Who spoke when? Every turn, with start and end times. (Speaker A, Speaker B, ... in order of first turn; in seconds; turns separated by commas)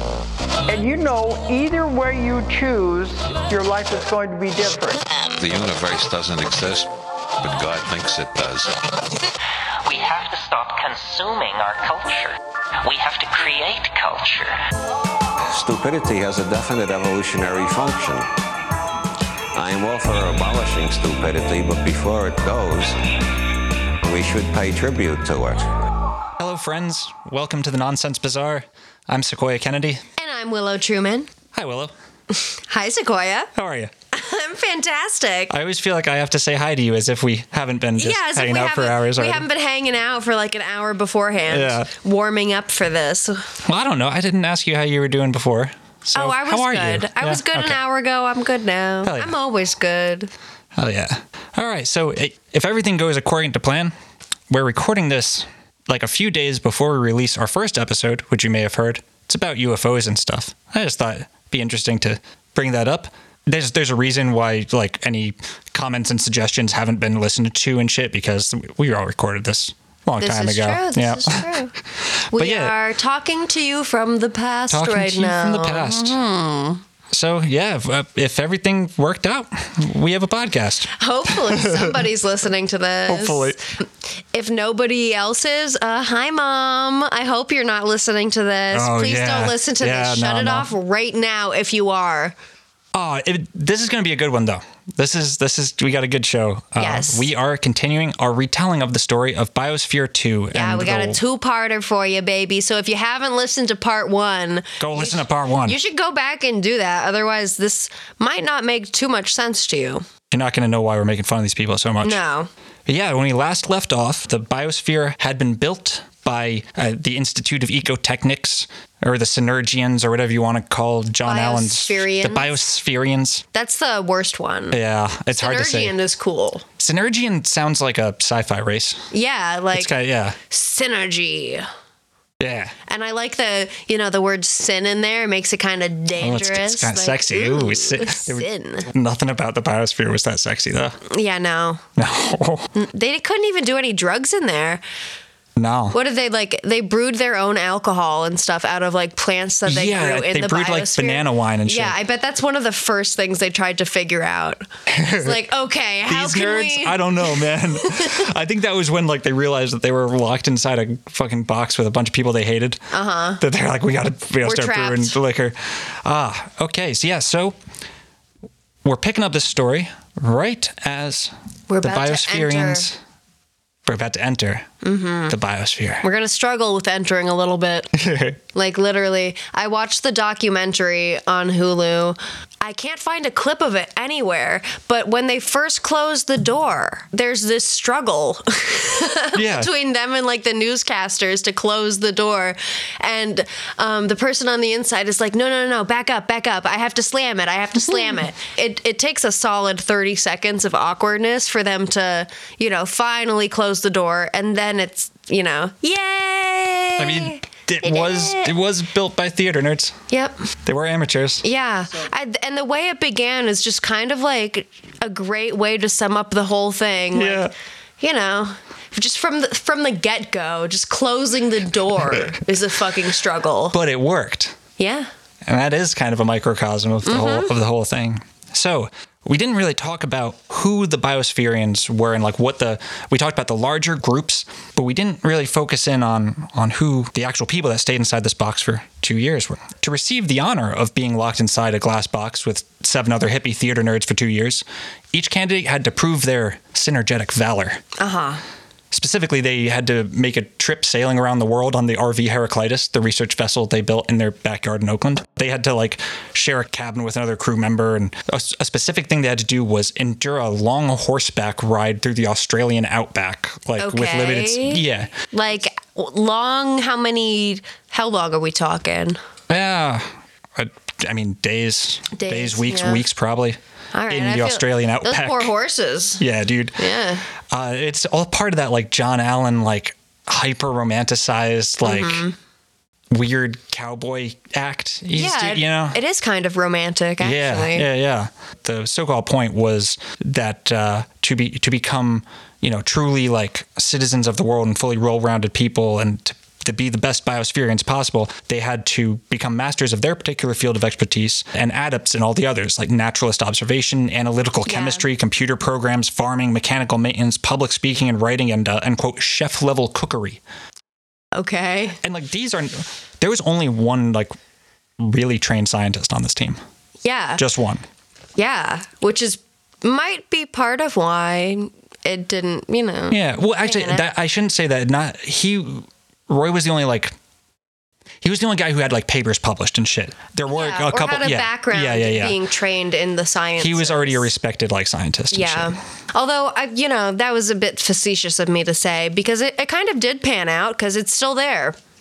Speaker A: 0.7-5.0, Speaker B: 5.3-6.9, Speaker B: 7.4-8.8, Speaker C: 9.8-14.6, Speaker D: 15.5-18.3, Speaker D: 19.5-23.0, Speaker D: 24.0-25.7, Speaker E: 26.4-30.0, Speaker F: 30.2-31.3, Speaker E: 31.5-31.9, Speaker F: 32.3-33.5, Speaker E: 33.5-33.9, Speaker F: 34.1-35.5, Speaker E: 35.5-39.4, Speaker F: 38.0-43.5, Speaker E: 41.5-41.9, Speaker E: 43.6-47.8, Speaker F: 46.1-50.3, Speaker E: 49.0-49.4, Speaker E: 50.7-53.9, Speaker E: 54.5-71.5, Speaker F: 70.2-71.7, Speaker E: 72.1-72.7, Speaker F: 72.3-76.8, Speaker E: 74.7-76.2, Speaker E: 77.1-82.1, Speaker F: 80.9-92.3, Speaker E: 83.1-83.6, Speaker E: 88.7-90.7, Speaker E: 92.9-101.2, Speaker F: 96.8-97.3, Speaker F: 100.5-110.0, Speaker E: 104.8-105.8, Speaker E: 110.3-112.2, Speaker F: 112.0-112.5, Speaker E: 112.8-123.4, Speaker F: 121.2-122.5, Speaker F: 123.5-124.8, Speaker E: 124.7-126.0, Speaker F: 125.3-126.6, Speaker E: 126.8-129.0, Speaker F: 129.1-129.9, Speaker E: 129.7-130.4, Speaker F: 130.5-131.7, Speaker E: 132.4-132.7, Speaker F: 132.9-138.9, Speaker E: 136.2-141.0, Speaker F: 141.1-141.8, Speaker E: 142.0-142.7, Speaker F: 142.7-144.8, Speaker E: 145.6-145.9, Speaker F: 145.9-158.2, Speaker E: 149.7-151.9, Speaker E: 154.9-155.4, Speaker E: 156.1-162.8, Speaker F: 162.9-163.4, Speaker E: 163.4-167.6, Speaker F: 164.4-165.2, Speaker E: 168.8-173.0, Speaker F: 171.7-172.8, Speaker E: 173.8-174.7, Speaker F: 174.8-175.3, Speaker E: 175.3-176.0, Speaker F: 176.0-177.9, Speaker E: 177.9-178.4, Speaker F: 178.5-208.5, Speaker E: 189.3-189.7, Speaker E: 207.0-210.0, Speaker F: 210.1-210.4, Speaker E: 210.7-211.4, Speaker F: 211.4-217.5, Speaker E: 217.1-217.5, Speaker F: 218.0-223.8, Speaker E: 223.7-224.6, Speaker F: 224.8-225.1, Speaker E: 225.4-247.8, Speaker F: 227.1-227.5, Speaker F: 248.0-248.4, Speaker E: 248.9-265.1, Speaker F: 263.8-269.2, Speaker E: 269.5-275.5, Speaker F: 272.1-273.0, Speaker F: 273.9-276.2, Speaker E: 276.2-276.8, Speaker F: 276.8-277.2, Speaker E: 277.4-282.2, Speaker F: 281.8-282.3, Speaker E: 283.1-286.0, Speaker F: 285.1-287.9, Speaker E: 287.2-310.4, Speaker F: 304.7-305.0, Speaker F: 311.3-312.0, Speaker E: 312.0-314.3, Speaker E: 315.0-316.6, Speaker F: 317.0-317.4, Speaker E: 317.4-317.8, Speaker F: 318.4-324.0, Speaker E: 323.1-327.1, Speaker E: 328.2-332.4, Speaker F: 330.5-334.2, Speaker E: 333.6-335.8, Speaker F: 335.3-341.8